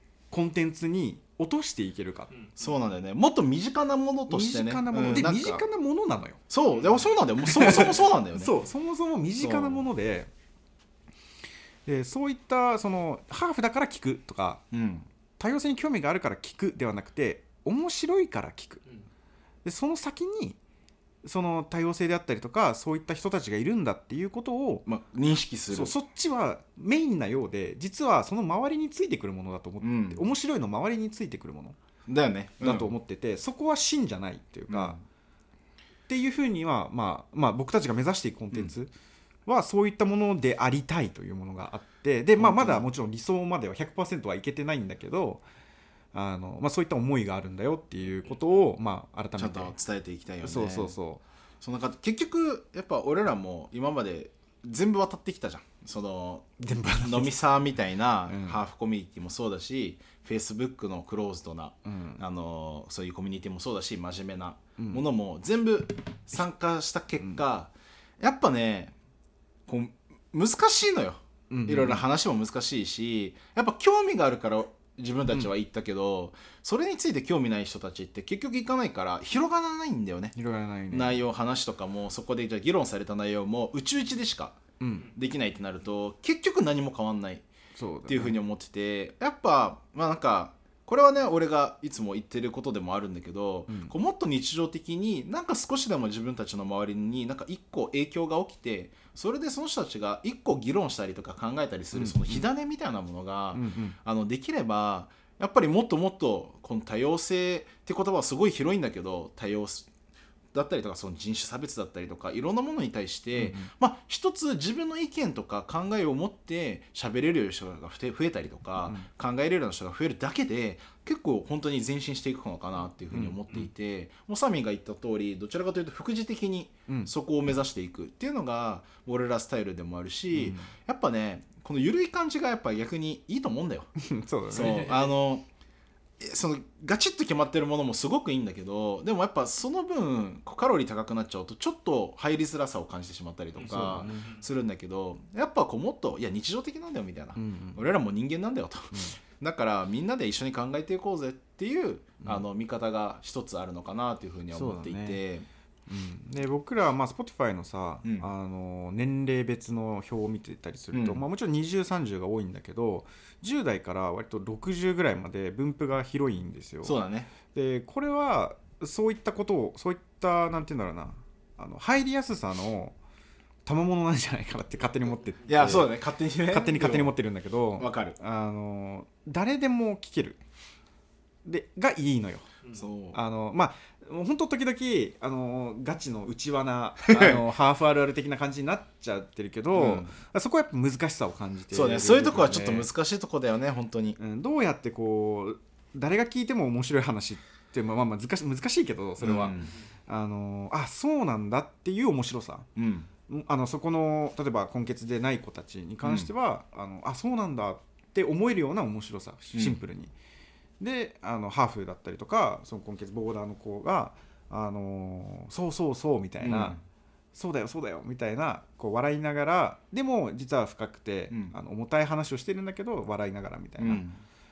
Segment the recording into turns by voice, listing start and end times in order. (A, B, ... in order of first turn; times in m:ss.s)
0:00.3-0:02.4 A
0:02.6-0:05.6 B
0:04.3-0:06.4 A
0:06.5-0:08.6 B
0:07.4-0:10.3 A
0:09.4-0:09.8 B
0:11.8-0:14.6 A
0:14.7-0:15.1 B
0:15.4-0:18.8 A
0:19.6-0:20.6 A
0:21.2-0:24.8 A
0:24.8-0:25.9 B
0:25.7-0:31.8 A
0:29.8-0:30.3 B
0:32.1-0:32.9 B
0:32.6-0:35.0 A
0:34.7-0:35.0 B
0:36.1-0:38.9 A
0:39.4-0:45.4 A
0:42.4-0:42.8 B
0:46.1-0:49.7 A
0:49.4-0:51.0 B
0:50.4-0:51.2 A
0:51.6-1:08.9 B
0:56.6-0:57.4 A
0:58.3-0:58.6 A
1:01.8-1:02.2 A
1:04.8-1:05.0 A
1:09.7-1:20.3 B
1:11.5-1:12.0 A
1:20.3-1:21.2 A
1:20.9-1:27.4 B
1:24.8-1:25.1 A
1:27.8-1:28.4 A
1:28.1-1:49.9 B
1:41.9-1:42.4 A
1:43.5-1:44.0 A
1:50.5-2:13.9 B
1:53.3-1:53.7 A
2:03.1-2:03.7 A
2:10.3-2:10.7 A
2:14.0-2:14.9 A
2:14.5-2:15.4 B
2:16.2-2:35.4 B
2:23.6-2:24.3 A
2:27.4-2:27.8 A
2:34.5-2:35.2 A
2:35.9-2:47.0 A
2:40.9-2:41.2 B
2:46.8-2:47.3 B
2:47.5-2:53.0 A
2:53.6-2:55.9 A
2:55.4-2:57.1 B
2:56.5-3:00.4 A
2:57.8-2:58.2 B
3:01.4-3:02.5 A
3:02.7-3:03.2 B
3:03.1-3:12.9 A
3:07.0-3:07.4 B
3:09.7-3:10.2 B
3:11.7-3:14.2 B
3:14.2-3:22.7 A
3:19.2-3:19.7 B
3:22.8-3:23.1 B
3:23.3-3:30.1 A
3:26.0-3:26.3 B
3:30.8-3:36.8 A
3:36.4-3:36.8 B
3:37.3-3:44.0 A
3:43.8-3:44.2 B